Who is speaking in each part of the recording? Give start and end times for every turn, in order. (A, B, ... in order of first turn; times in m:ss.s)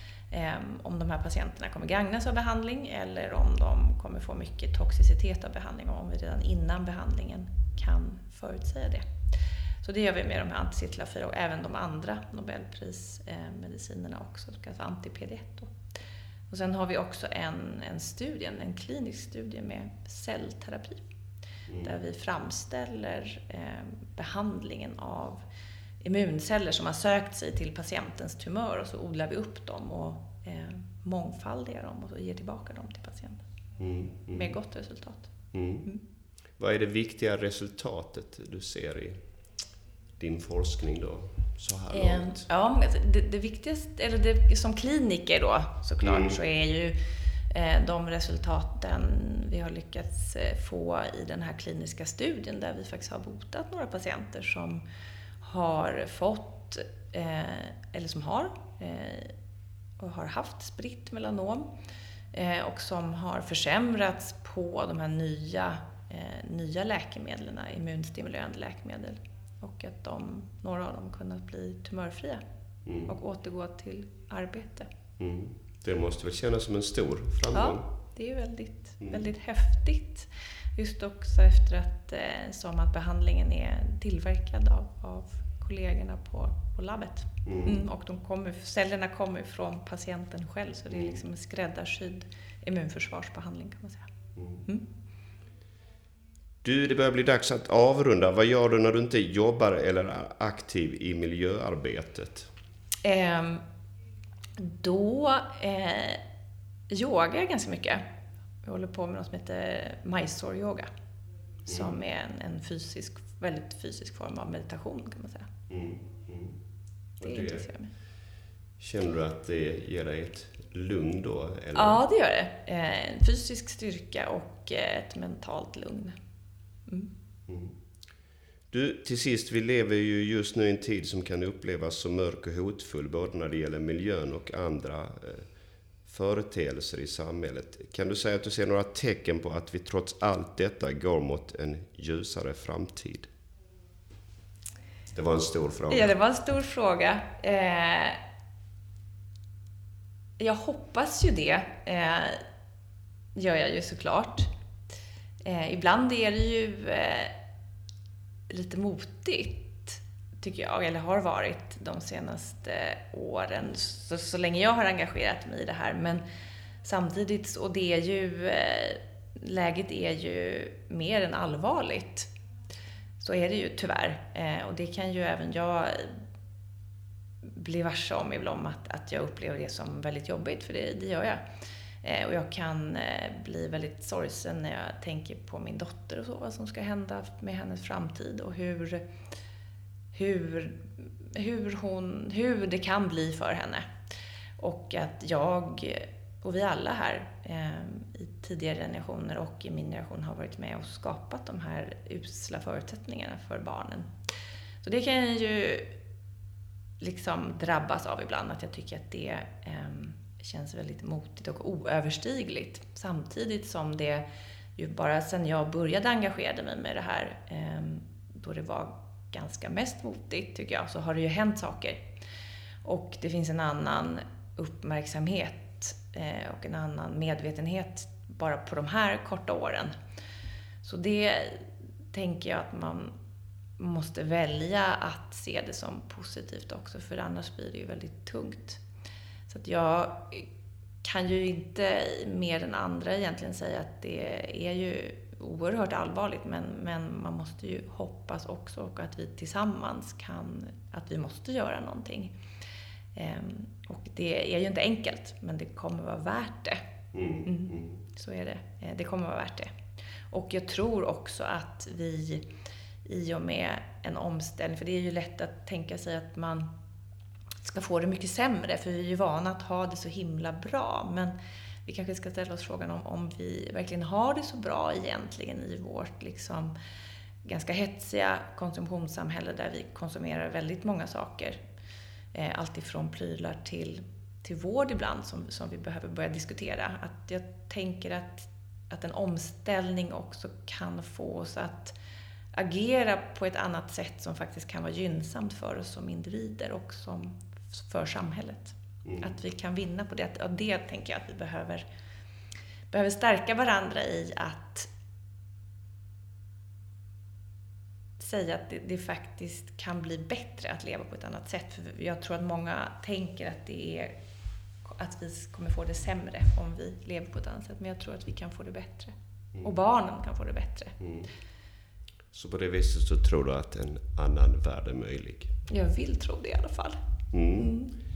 0:00.3-0:09.0 A
0:09.8-0:15.8 A
0:16.5-0:21.0 A
0:21.8-0:25.4 A
0:26.0-0:33.4 A
0:33.8-0:34.6 B
0:34.3-0:35.3 A
0:35.5-0:35.9 B
0:36.6-0:39.2 B
0:40.2-0:42.4 B
0:41.9-0:47.0 A
0:46.0-0:46.4 B
0:47.5-0:54.8 A
0:55.4-0:59.3 A
1:00.0-1:01.7 A
1:02.3-1:12.4 A
1:12.9-1:13.1 B
1:13.1-1:14.9 A
1:15.2-1:17.8 B
1:17.5-1:34.1 A
1:27.4-1:27.8 B
1:30.9-1:31.2 B
1:34.4-1:34.6 B
1:36.6-1:42.5 B
1:43.0-1:43.6 A
1:44.6-1:46.2 A
1:46.9-1:48.0 A
1:48.6-1:50.9 A
1:51.7-1:52.0 B
1:51.7-1:55.5 A
1:55.7-1:56.6 B
1:57.2-1:57.7 B
1:57.2-1:57.9 A
1:58.8-2:02.0 B
2:01.7-2:06.2 A
2:07.5-2:07.8 B
2:08.7-2:15.5 B
2:16.1-2:23.3 B
2:25.1-2:26.1 B
2:25.9-2:28.2 A
2:30.4-2:32.4 A
2:33.4-2:34.5 A
2:35.4-2:37.3 A
2:38.5-2:46.2 A
2:46.8-2:52.3 A
2:53.2-2:56.1 A
2:57.5-3:01.4 A
3:02.0-3:09.0 A
3:10.1-3:13.9 A
3:14.6-3:24.1 A
3:24.8-3:25.9 A
3:27.0-3:34.2 A
3:34.8-3:42.0 A
3:42.8-3:49.9 A
3:50.8-3:53.1 A
3:53.8-3:58.8 A
3:59.5-4:00.5 A
4:01.0-4:12.3 A
4:13.2-4:16.8 A
4:17.1-4:18.0 B
4:17.4-4:19.7 A
4:20.3-4:22.4 A
4:23.1-4:26.7 A
4:27.6-4:31.4 A
4:31.9-4:36.8 A
4:37.4-4:41.6 A
4:42.3-4:52.0 A
4:52.5-5:01.8 A
4:59.0-4:59.3 B
5:02.9-5:04.9 A
5:08.2-5:14.2 A
5:14.8-5:21.0 A
5:21.0-5:21.3 B
5:22.3-5:25.5 B
5:25.7-5:27.0 A
5:27.3-5:27.8 B
5:27.5-5:27.9 A